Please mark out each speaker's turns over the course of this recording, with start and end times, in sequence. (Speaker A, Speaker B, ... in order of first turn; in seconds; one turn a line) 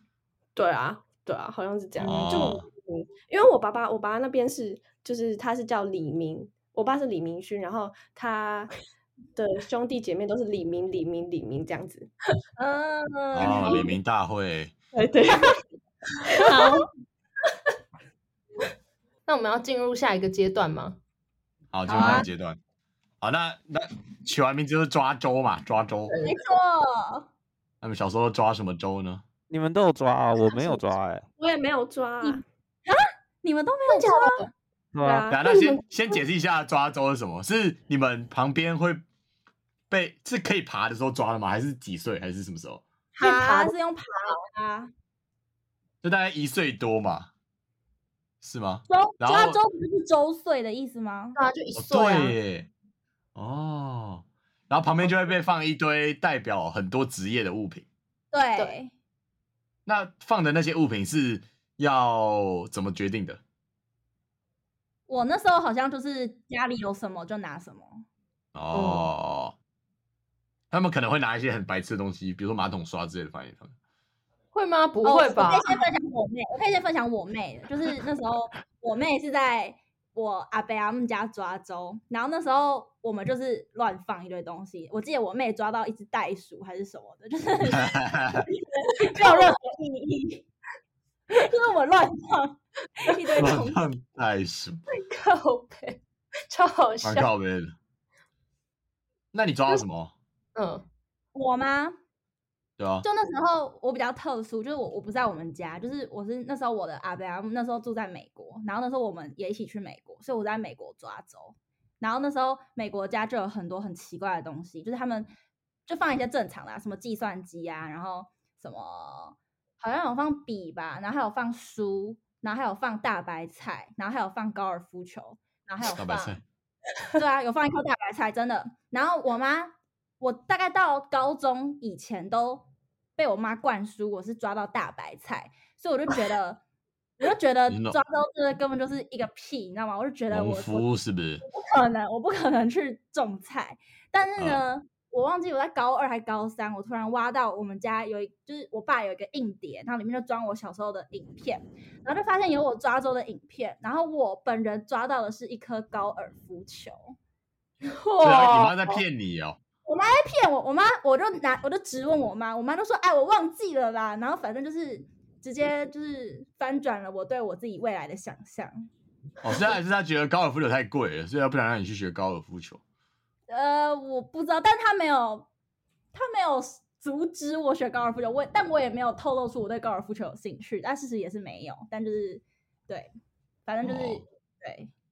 Speaker A: 0.6-8.7
Speaker B: 2.0-2.6
Speaker A: 9.4-12.1
Speaker C: 12.6-13.9
Speaker B: 13.3-14.7
Speaker D: 13.5-13.9
Speaker A: 14.9-15.6
Speaker A: 16.3-16.9
Speaker C: 16.4-16.8
Speaker D: 19.3-21.0
Speaker B: 21.7-22.6
Speaker D: 21.9-22.3
Speaker C: 21.9-22.3
Speaker B: 23.2-26.1
Speaker D: 26.1-26.4
Speaker C: 26.2-27.3
Speaker B: 27.8-29.2
Speaker E: 29.5-31.2
Speaker A: 31.4-32.4
Speaker C: 32.2-34.5
Speaker D: 33.9-34.5
Speaker E: 35.0-35.3
Speaker A: 35.0-35.4
Speaker B: 35.3-39.0
Speaker D: 35.4-36.2
Speaker B: 39.9-42.8
Speaker D: 43.1-43.7
Speaker C: 43.2-44.9
Speaker B: 46.0-47.3
Speaker B: 48.4-49.6
Speaker C: 48.9-51.4
Speaker D: 51.4-52.4
Speaker B: 51.8-52.7
Speaker B: 53.3-57.9
Speaker C: 58.3-58.9
Speaker B: 59.9-63.4
Speaker C: 65.1-68.0
Speaker B: 68.5-69.5
Speaker D: 68.7-69.1
Speaker B: 70.7-73.7
Speaker D: 74.5-75.8
Speaker C: 75.0-90.4
Speaker B: 87.7-88.5
Speaker D: 89.0-89.5
Speaker C: 91.3-93.8
Speaker B: 93.4-94.8
Speaker D: 94.9-96.0
Speaker D: 96.5-97.3
Speaker B: 97.0-97.7
Speaker B: 99.3-100.1
Speaker D: 100.5-100.8
Speaker C: 101.3-102.0
Speaker B: 102.8-103.0
Speaker C: 103.0-115.3
Speaker C: 115.9-126.4
Speaker B: 125.8-126.4
Speaker C: 127.2-136.6
Speaker C: 137.2-140.9
Speaker B: 137.7-138.0
Speaker B: 140.3-141.4
Speaker C: 141.4-157.2
Speaker D: 157.8-159.0
Speaker B: 158.2-159.6
Speaker C: 159.9-168.9
Speaker B: 169.4-172.8
Speaker C: 173.5-175.5
Speaker C: 176.1-183.1
Speaker C: 183.7-184.9
Speaker B: 183.8-184.2